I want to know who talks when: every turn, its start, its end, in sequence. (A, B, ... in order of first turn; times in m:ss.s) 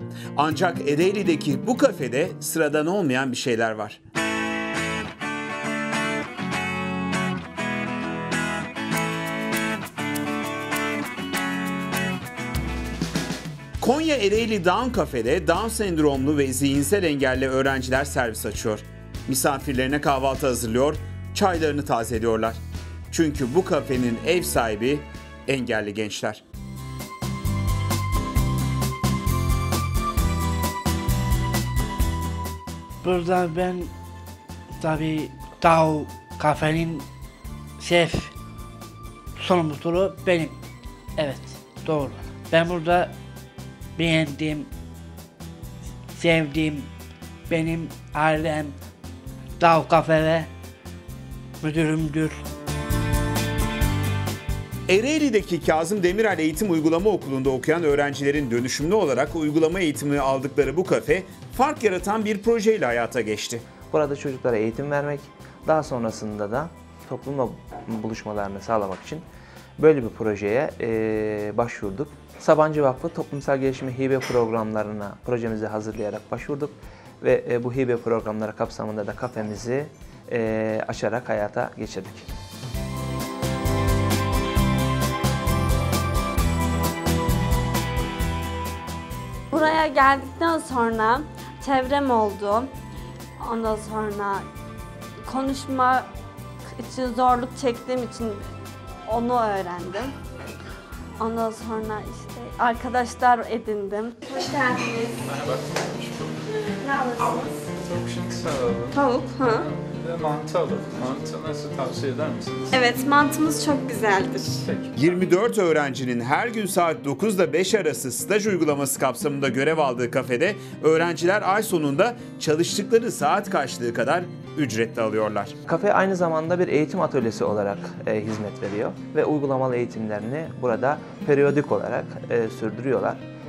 0:00.4-0:04.0 A
0:13.8-0:22.6 A
0:23.1-0:26.4 A
0:33.0-0:33.9 B
0:34.8-0:37.0 B
0:37.8-0:38.3 B
0:39.4-0:40.6 B
0:41.2-0:43.1 B
0:44.0-0:44.7 B
0:46.1-0:46.9 B
0:47.5-0:48.8 B
0:49.6-0:50.5 B
0:51.6-0:52.4 B
0:54.9-1:03.6 A
1:03.9-1:09.2 C
1:09.8-1:22.3 C
1:29.5-1:32.7 D
1:33.4-1:34.4 D
1:35.3-1:36.1 D
1:36.8-1:38.4 D
1:39.1-1:40.1 D
1:41.2-1:45.2 D
1:45.2-1:46.4 E
1:46.8-1:47.5 D
1:47.8-1:52.8 E
1:48.9-1:49.6 D
1:52.7-1:54.6 D
1:54.6-1:55.3 E
1:55.0-2:05.5 A
2:05.6-2:13.2 C